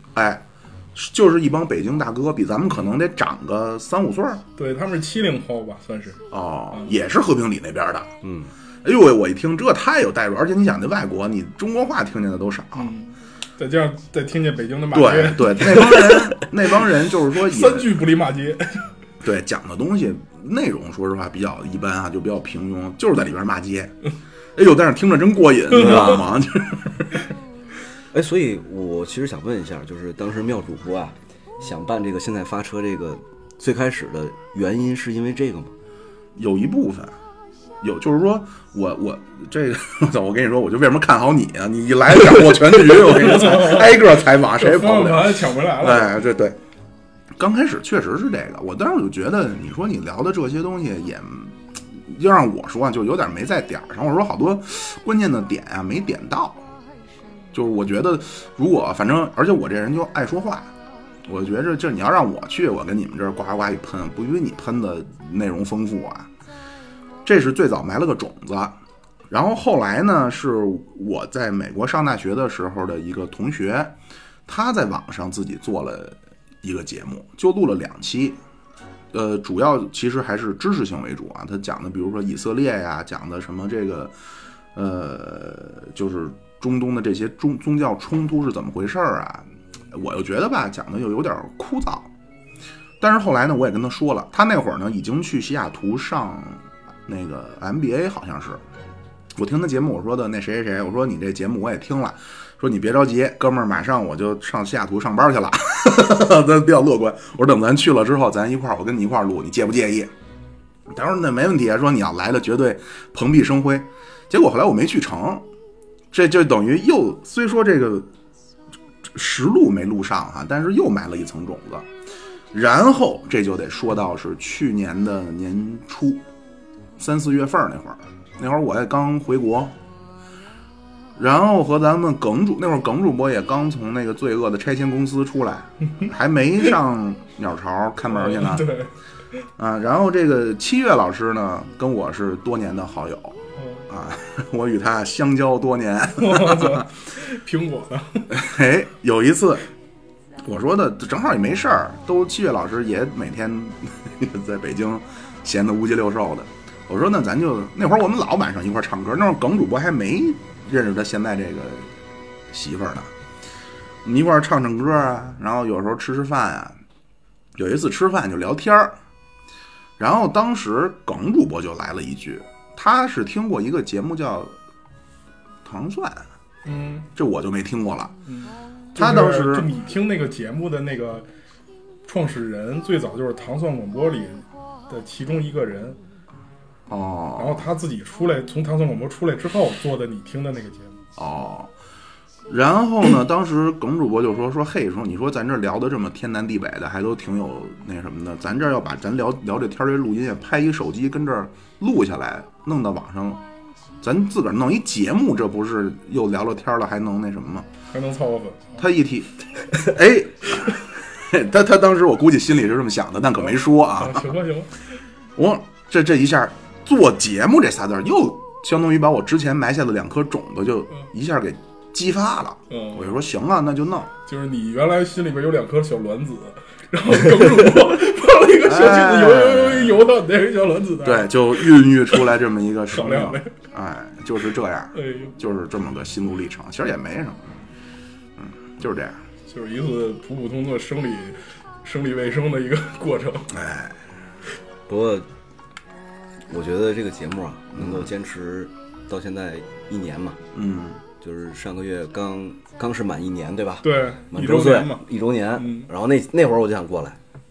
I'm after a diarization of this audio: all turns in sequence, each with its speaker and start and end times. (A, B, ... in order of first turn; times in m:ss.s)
0:00.1-0:04.4 A
0:04.6-0:06.9 B
0:06.3-0:08.1 A
0:08.2-0:08.5 C
0:08.8-0:12.9 A
0:12.8-0:16.1 B
0:14.9-0:18.0 A
0:17.3-0:18.9 B
0:19.2-0:24.0 A
0:24.6-0:27.2 A
0:25.7-0:26.3 C
0:28.1-0:35.7 C
0:36.4-0:37.2 A
0:37.8-0:46.6 A
0:43.0-0:44.0 B
0:44.6-0:46.3 B
0:47.4-0:56.7 A
0:57.5-1:00.7 A
1:01.2-1:06.3 A
1:07.2-1:08.8 A
1:09.3-1:18.4 A
1:19.1-1:24.2 A
1:24.8-1:32.1 A
1:33.0-1:38.6 A
1:39.4-1:50.1 A
1:50.9-1:55.5 A
1:56.1-1:58.1 A
1:59.1-2:01.9 A
2:02.5-2:06.2 A
2:07.0-2:09.8 A
2:11.2-2:18.8 A
2:18.1-2:18.9 B
2:19.6-2:26.9 A
2:23.6-2:23.9 B
2:26.2-2:28.4 B
2:28.3-2:29.7 A
2:30.4-2:41.9 A
2:42.5-2:43.1 A
2:44.0-2:46.8 A
2:47.6-2:49.0 A
2:50.0-2:54.6 A
2:55.6-2:56.3 A
2:56.6-2:57.1 B
2:57.2-2:58.2 A
2:58.3-3:01.3 B
2:59.0-2:59.7 A
3:02.1-3:06.0 B
3:06.9-3:07.7 A
3:07.4-3:11.0 B
3:11.2-3:11.7 A
3:12.5-3:23.4 A
3:24.0-3:27.7 A
3:27.9-3:28.8 B
3:28.8-3:34.4 A
3:34.0-3:34.7 B
3:35.4-3:44.1 A
3:42.7-3:43.2 B
3:44.3-3:52.0 B
3:48.6-3:50.1 A
3:51.0-3:57.6 A
3:52.9-3:53.5 B
3:55.0-3:55.3 B
3:58.4-3:59.2 A
3:59.5-4:03.5 B
4:03.5-4:04.1 A
4:04.9-4:05.3 C
4:06.5-4:10.4 C
4:07.7-4:08.1 A
4:10.5-4:11.0 A
4:11.2-4:17.2 C
4:13.8-4:15.0 B
4:15.6-4:15.9 B